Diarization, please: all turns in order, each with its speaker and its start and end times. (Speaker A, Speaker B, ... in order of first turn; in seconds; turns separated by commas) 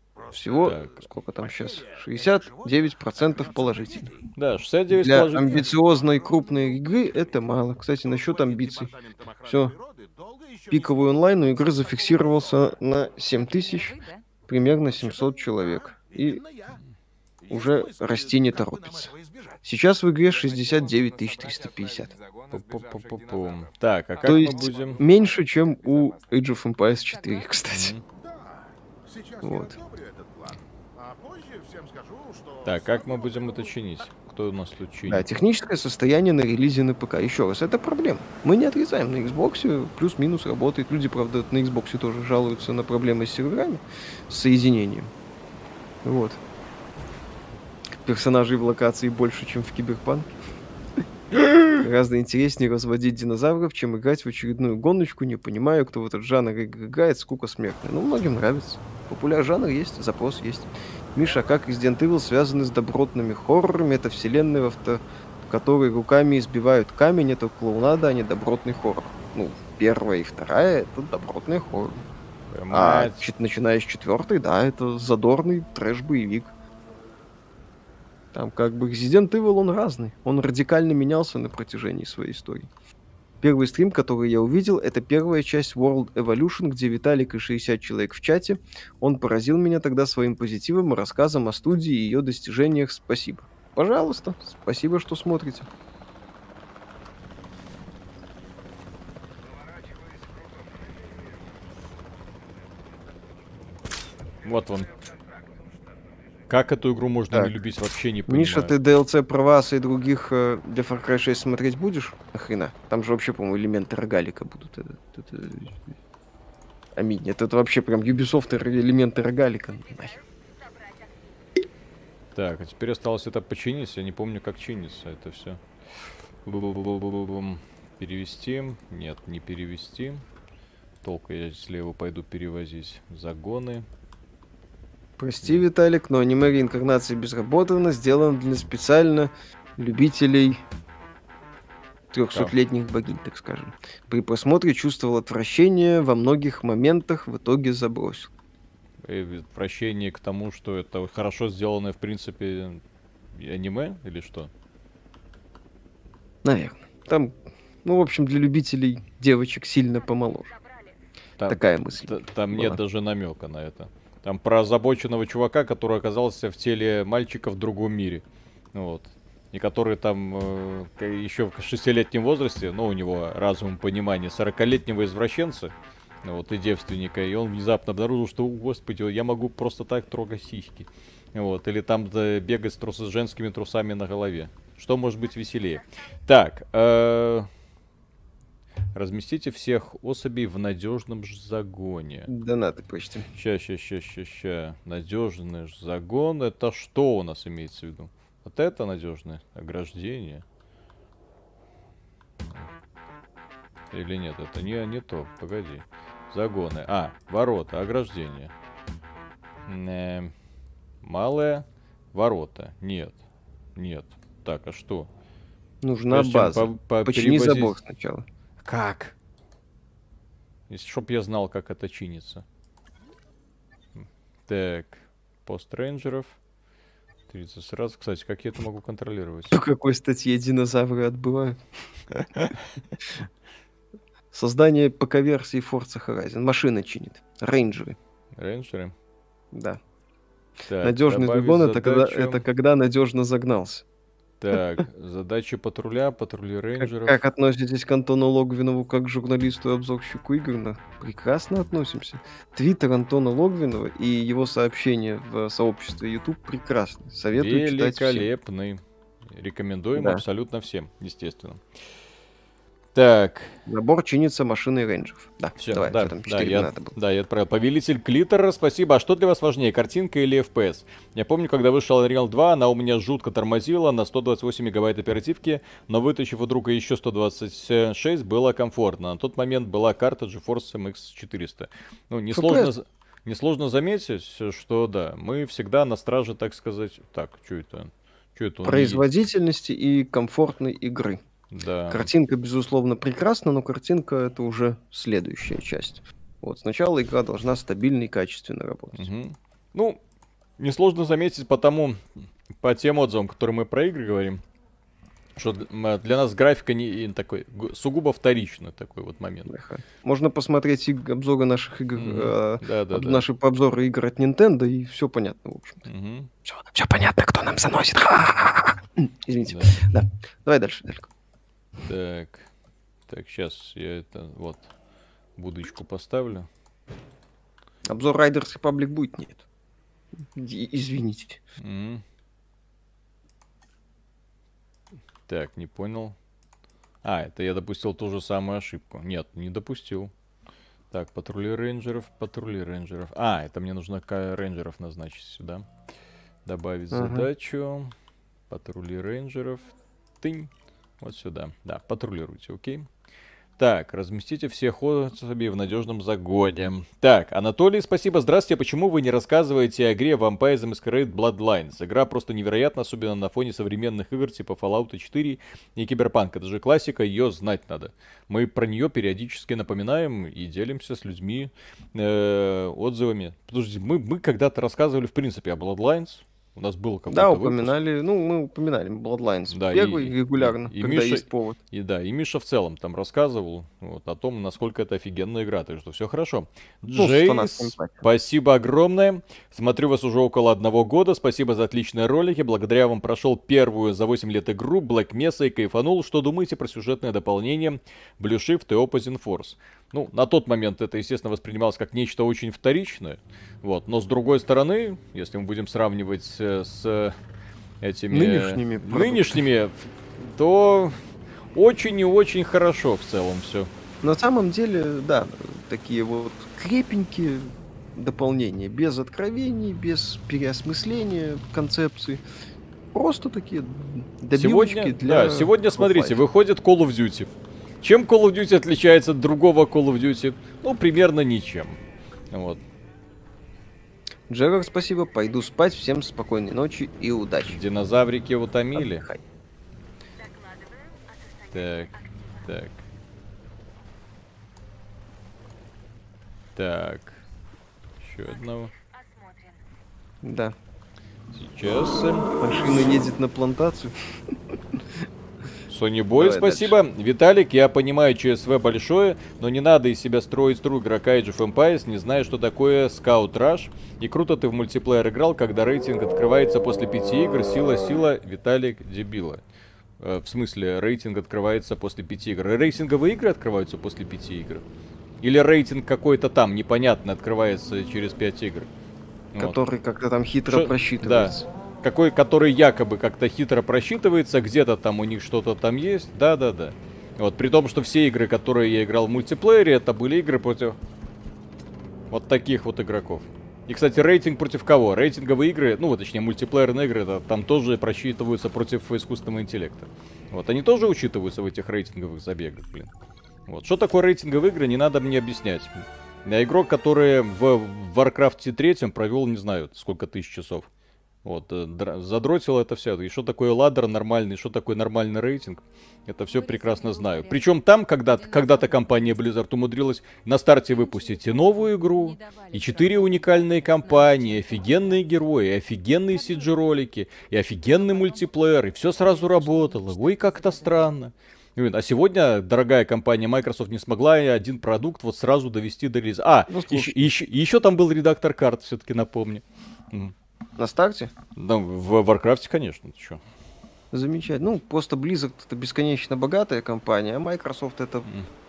Speaker A: 0.2-4.3, Speaker B: 0.3-4.1, Speaker C: 0.6-1.0, Speaker C: 4.3-5.8, Speaker B: 4.9-8.9, Speaker A: 5.1-12.8, Speaker B: 9.4-9.8, Speaker B: 10.7-14.0, Speaker D: 13.3-14.2, Speaker B: 14.5-16.4, Speaker A: 14.9-16.8, Speaker A: 17.4-26.5, Speaker B: 17.5-19.1, Speaker B: 19.6-22.1, Speaker C: 22.5-25.0, Speaker B: 24.2-27.9, Speaker D: 27.1-27.6, Speaker C: 27.7-28.0, Speaker A: 28.1-33.8, Speaker B: 29.4-29.8, Speaker C: 32.6-35.3, Speaker B: 35.1-45.1, Speaker B: 46.0-46.4, Speaker B: 48.0-50.3, Speaker B: 51.7-72.0, Speaker C: 72.5-73.3, Speaker B: 72.7-76.5, Speaker B: 78.3-82.7, Speaker B: 83.4-95.7, Speaker A: 99.4-106.6, Speaker C: 104.4-104.9, Speaker C: 106.5-108.7, Speaker B: 108.3-115.8, Speaker B: 117.0-120.2, Speaker C: 122.3-125.6, Speaker C: 126.5-130.2, Speaker C: 131.0-133.9, Speaker B: 135.2-140.6, Speaker B: 142.1-148.3, Speaker C: 149.0-152.8, Speaker C: 153.3-154.5, Speaker B: 156.4-160.5, Speaker C: 161.4-187.5, Speaker B: 161.5-162.8, Speaker C: 188.9-192.3, Speaker B: 192.3-193.3, Speaker C: 193.3-200.4, Speaker C: 203.9-208.5, Speaker C: 209.7-210.3, Speaker C: 211.0-213.2, Speaker C: 213.8-215.1, Speaker B: 215.8-218.2, Speaker C: 216.1-217.8, Speaker C: 218.6-219.2, Speaker C: 220.7-222.4, Speaker C: 224.0-226.4, Speaker C: 227.3-229.6, Speaker B: 229.5-231.6, Speaker C: 232.2-232.6, Speaker B: 234.3-238.0, Speaker C: 238.4-238.9, Speaker B: 239.5-239.8, Speaker C: 240.7-242.4, Speaker B: 240.8-243.8, Speaker C: 244.4-247.2, Speaker B: 246.8-258.3, Speaker C: 257.3-261.6, Speaker B: 260.0-260.2, Speaker C: 262.9-263.6, Speaker B: 263.7-266.9, Speaker C: 265.6-289.1, Speaker B: 282.3-282.7, Speaker B: 288.6-291.2, Speaker C: 291.5-292.1, Speaker B: 291.9-299.1, Speaker C: 298.9-300.0, Speaker C: 300.6-304.4, Speaker C: 305.4-309.5, Speaker B: 309.5-315.9, Speaker C: 312.0-313.2, Speaker C: 315.9-316.3, Speaker B: 316.4-321.1, Speaker C: 319.5-319.8, Speaker C: 321.8-322.5, Speaker C: 323.1-324.7, Speaker C: 325.4-326.5, Speaker B: 327.9-329.4, Speaker B: 330.3-331.4, Speaker C: 331.6-332.0, Speaker C: 335.3-336.2, Speaker C: 337.0-340.1, Speaker C: 340.9-345.7, Speaker C: 346.4-347.9, Speaker B: 346.9-347.3, Speaker C: 348.5-352.9, Speaker C: 353.6-377.7, Speaker B: 377.1-381.6, Speaker C: 379.5-407.1, Speaker B: 387.0-388.0, Speaker C: 407.8-411.0, Speaker B: 408.1-409.4, Speaker C: 411.5-413.7, Speaker B: 414.0-422.2, Speaker B: 422.9-426.2, Speaker C: 424.3-432.6, Speaker B: 434.3-437.6, Speaker C: 437.4-439.1, Speaker B: 438.8-439.2, Speaker D: 440.3-442.5, Speaker C: 441.5-442.8, Speaker C: 446.6-447.2, Speaker C: 448.0-448.7, Speaker D: 449.0-449.6, Speaker B: 450.2-450.6, Speaker C: 451.3-452.3, Speaker B: 452.4-454.8, Speaker C: 455.7-469.4, Speaker B: 456.2-456.8, Speaker C: 470.0-474.6, Speaker C: 475.2-478.7, Speaker C: 479.3-479.6, Speaker B: 479.4-481.5, Speaker C: 480.5-490.8, Speaker C: 492.1-502.9, Speaker C: 503.5-510.7, Speaker C: 511.2-540.1, Speaker D: 516.3-519.4, Speaker D: 520.7-525.1, Speaker D: 526.1-526.7, Speaker D: 527.6-531.0, Speaker B: 536.5-537.1, Speaker B: 540.6-541.1, Speaker C: 541.4-543.2, Speaker B: 543.9-548.1